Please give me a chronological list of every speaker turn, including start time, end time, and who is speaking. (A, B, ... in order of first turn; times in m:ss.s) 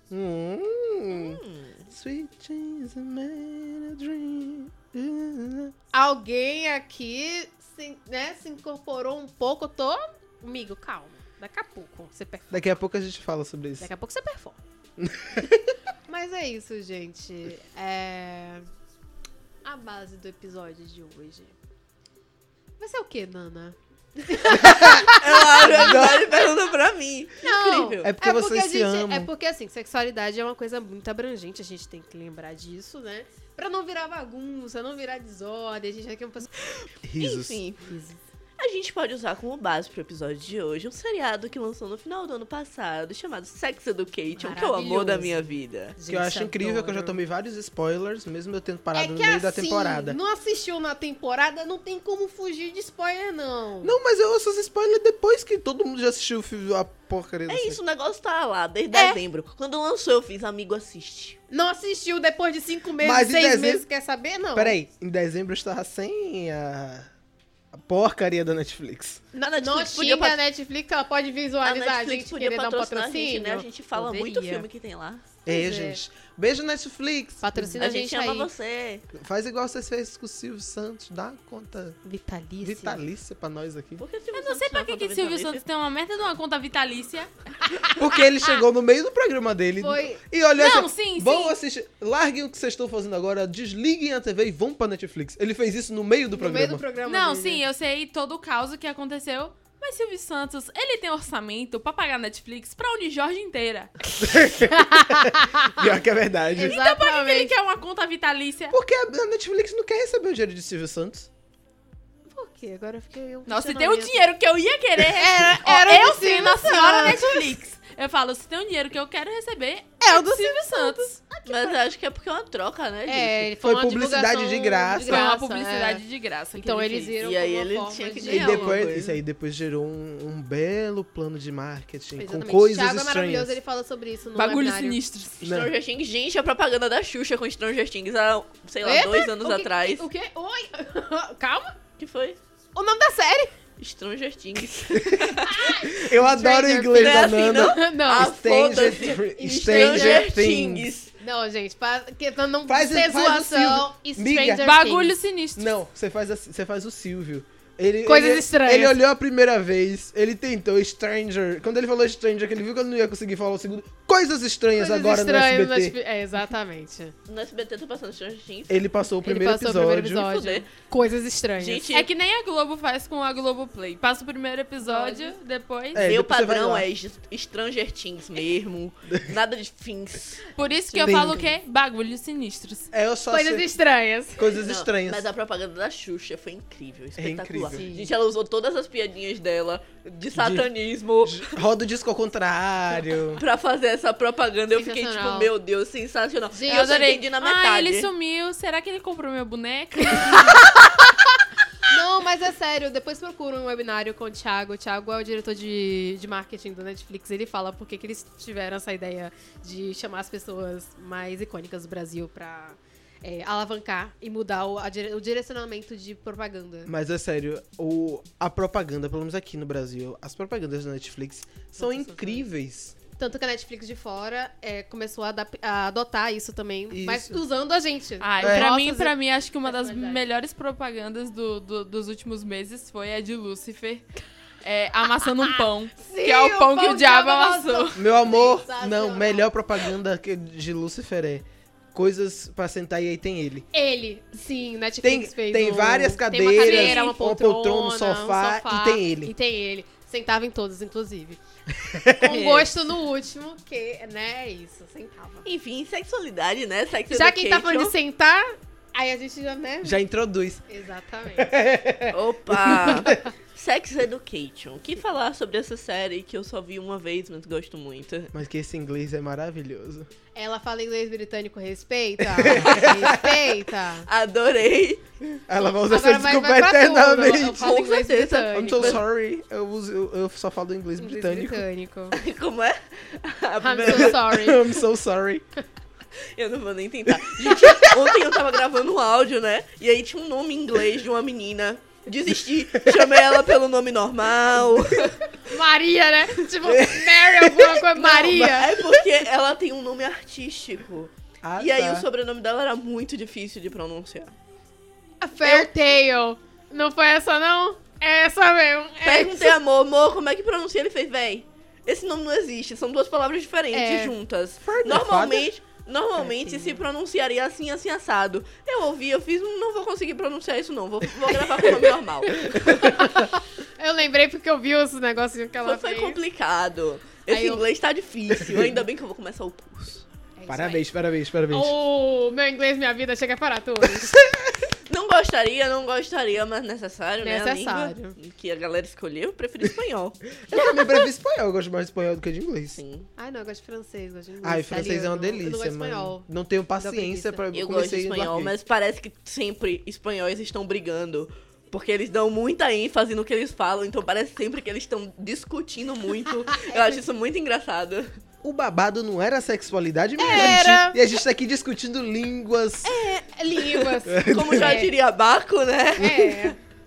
0:00.1-0:05.7 A
0:01.1-0:01.9 B
0:05.9-0:12.6 C
0:12.5-0:13.9 A
0:13.8-0:14.6 C
0:15.0-0:15.7 A
0:16.0-0:18.7 C
0:19.6-0:21.6 C
0:22.8-0:26.5 C
0:24.5-0:26.3 A
0:24.8-0:28.1 B
0:27.4-0:36.5 C
0:28.0-0:29.3 A
0:36.8-0:37.9 B
0:37.0-0:37.6 A
0:37.8-0:38.2 C
0:38.6-0:46.0 B
0:44.3-0:47.2 C
0:46.1-0:50.2 A
0:48.9-0:53.9 C
0:53.8-0:57.8 A
0:57.5-1:01.4 B
0:58.9-0:59.2 C
1:01.5-1:04.8 C
1:03.0-1:03.8 A
1:04.5-1:07.1 A
1:07.7-1:09.2 A
1:09.3-1:10.4 B
1:09.6-1:14.7 C
1:11.6-1:15.2 B
1:15.4-1:16.0 C
1:15.4-1:17.8 A
1:17.4-1:18.5 C
1:17.8-1:19.0 B
1:19.1-1:22.0 A
1:22.0-1:23.0 C
1:22.6-1:24.0 A
1:24.0-1:25.6 B
1:24.3-1:27.7 D
1:27.9-1:36.8 A
1:29.8-1:30.2 C
1:30.6-1:31.5 D
1:36.3-1:37.6 C
1:37.0-1:44.0 D
1:44.2-1:46.8 A
1:44.6-1:45.8 C
1:46.5-1:47.6 C
1:46.6-1:48.8 D
1:48.7-1:51.3 A
1:52.3-1:54.2 C
1:53.4-2:01.2 D
1:55.1-1:57.4 C
2:00.0-2:01.8 C
2:01.4-2:03.5 B
2:03.1-2:06.0 C
2:03.6-2:05.3 A
2:04.9-2:07.2 D
2:06.5-2:08.8 C
2:07.2-2:09.2 B
2:08.2-2:13.6 A
2:12.2-2:15.0 C
2:14.3-2:15.4 D
2:15.4-2:20.0 B
2:15.4-2:15.7 A
2:18.8-2:21.7 C
2:22.0-2:22.4 B
2:22.7-2:23.5 C
2:23.8-2:25.6 B
2:24.9-2:30.9 A
2:25.4-2:28.3 C
2:26.9-2:31.1 B
2:29.1-2:30.3 C
2:31.2-2:35.1 C
2:32.6-2:34.7 A
2:34.6-2:35.7 D
2:35.6-2:46.0 A
2:38.0-2:39.0 C
2:44.7-2:47.1 C
2:47.3-2:48.8 B
2:48.7-2:50.3 A
2:49.2-2:51.9 C
2:50.2-2:50.7 B
2:51.6-2:52.1 B
2:51.9-2:56.1 D
2:54.8-2:55.3 C
2:55.9-2:56.9 A
2:55.9-3:00.4 B
3:00.5-3:02.9 D
3:00.9-3:01.5 C
3:02.9-3:03.7 A
3:03.3-3:04.6 C
3:04.4-3:05.2 A
3:04.6-3:11.6 B
3:07.2-3:07.8 A
3:07.7-3:08.1 C
3:10.3-3:10.7 A
3:11.2-3:13.4 A
3:13.4-3:18.1 B
3:14.7-3:15.5 C
3:16.5-3:16.9 C
3:16.7-3:20.7 D
3:21.9-3:36.9 C
3:36.8-3:42.9 A
3:41.8-3:42.5 C
3:43.2-3:50.3 C
3:46.9-3:47.4 A
3:48.2-3:54.1 D
3:48.4-3:48.7 A
3:54.6-3:58.0 D
3:55.4-3:59.5 C
3:57.9-4:03.7 A
4:03.7-4:11.4 C
4:05.0-4:09.3 A
4:06.5-4:07.2 D
4:11.8-4:12.5 A
4:12.1-4:15.5 C
4:12.3-4:12.6 B
4:15.4-4:17.9 B
4:17.1-4:20.0 C
4:19.8-4:20.6 A
4:20.7-4:21.6 C
4:21.3-4:23.2 A
4:22.1-4:28.3 B
4:28.3-4:30.1 A
4:30.3-4:34.1 C
4:32.4-4:33.2 A
4:32.6-4:33.0 B
4:34.0-4:35.0 B
4:35.5-4:37.8 A
4:35.9-4:39.0 C
4:37.6-4:39.0 B
4:38.5-4:41.6 A
4:41.0-4:42.2 C
4:42.1-4:44.2 B
4:43.6-4:44.8 C
4:43.9-4:45.4 A
4:46.3-4:55.2 B
4:47.1-4:48.2 A
4:52.7-4:53.4 A
4:54.5-4:55.1 A
4:55.3-4:58.8 C
4:56.6-4:57.8 A
4:58.0-5:04.3 B
5:01.4-5:02.0 A
5:05.2-5:09.6 C
5:05.4-5:05.7 A
5:09.0-5:23.0 B
5:13.7-5:14.1 C
5:14.6-5:15.5 A
5:16.2-5:16.8 C
5:22.3-5:26.2 C
5:25.6-5:30.0 B
5:27.3-5:27.6 C
5:28.4-5:28.8 A
5:30.4-5:30.8 C
5:30.5-5:31.7 A
5:31.5-5:34.2 C
5:34.0-5:34.7 A
5:34.9-5:40.2 B
5:37.2-5:38.2 C
5:40.4-5:42.8 A
5:42.8-5:43.1 B
5:43.2-5:46.2 C
5:44.4-5:48.5 A
5:46.8-5:47.5 C
5:47.5-5:58.2 B
5:56.5-5:57.0 C
5:58.4-6:03.0 A
6:00.2-6:01.0 C
6:02.8-6:06.5 B
6:03.2-6:04.9 C
6:04.0-6:04.8 A
6:06.0-6:06.6 C